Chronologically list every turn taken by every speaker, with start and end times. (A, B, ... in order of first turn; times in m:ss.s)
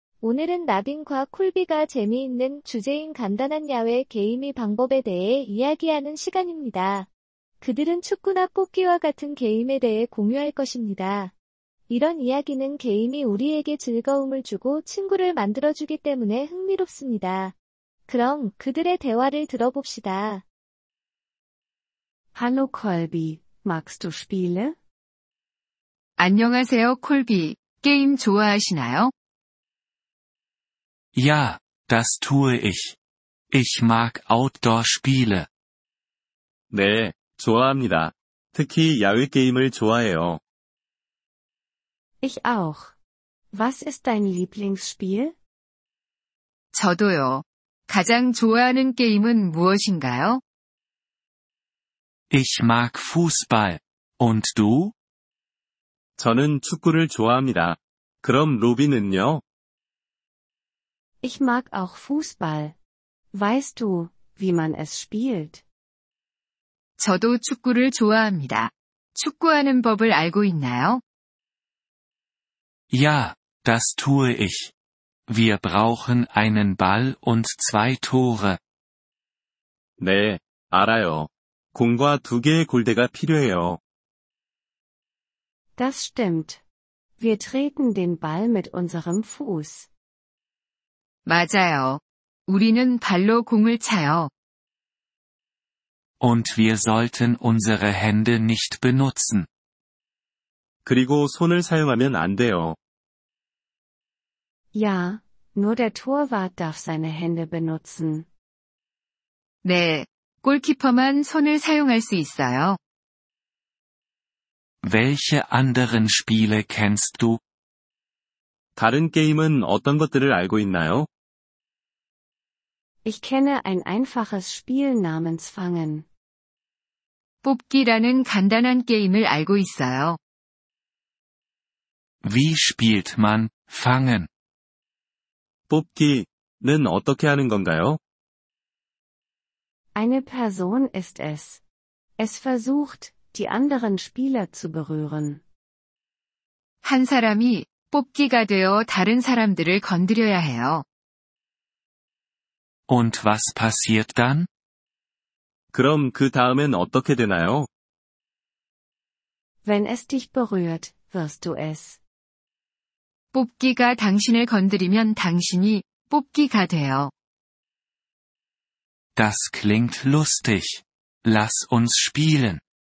0:00.2-0:07.1 A
0:07.6-0:11.3 A
0:11.9-0:17.5 A
0:18.1-0:20.4 A
0:22.3-0:24.7 B
0:26.2-0:29.1 C
0:31.1-0:33.0 D
0:33.5-0:35.5 D
0:36.7-0:40.4 E
0:42.2-0:43.0 B
0:43.5-0:45.4 B
0:46.7-0:50.4 C
0:52.3-0:54.9 D
0:56.2-0:59.4 E
1:01.2-1:02.8 B
1:03.3-1:05.6 B
1:07.0-1:11.0 C
1:12.9-1:14.7 D
1:15.3-1:18.6 D
1:20.0-1:23.8 E
1:25.8-1:26.6 B
1:27.2-1:29.9 B
1:31.2-1:34.3 C
1:36.2-1:39.5 D
1:40.8-1:42.8 E
1:44.7-1:48.3 B
1:49.6-1:52.8 C
1:54.8-1:57.4 D
1:58.8-2:01.1 E
2:03.0-2:06.1 B
2:07.4-2:10.2 C
2:12.2-2:14.3 D
2:15.7-2:18.0 E
2:19.9-2:21.6 B
2:22.2-2:25.4 B
2:26.8-2:30.8 C
2:32.9-2:34.5 D
2:35.7-2:37.7 E
2:39.6-2:42.0 B
2:43.3-2:47.1 C
2:49.1-2:52.6 D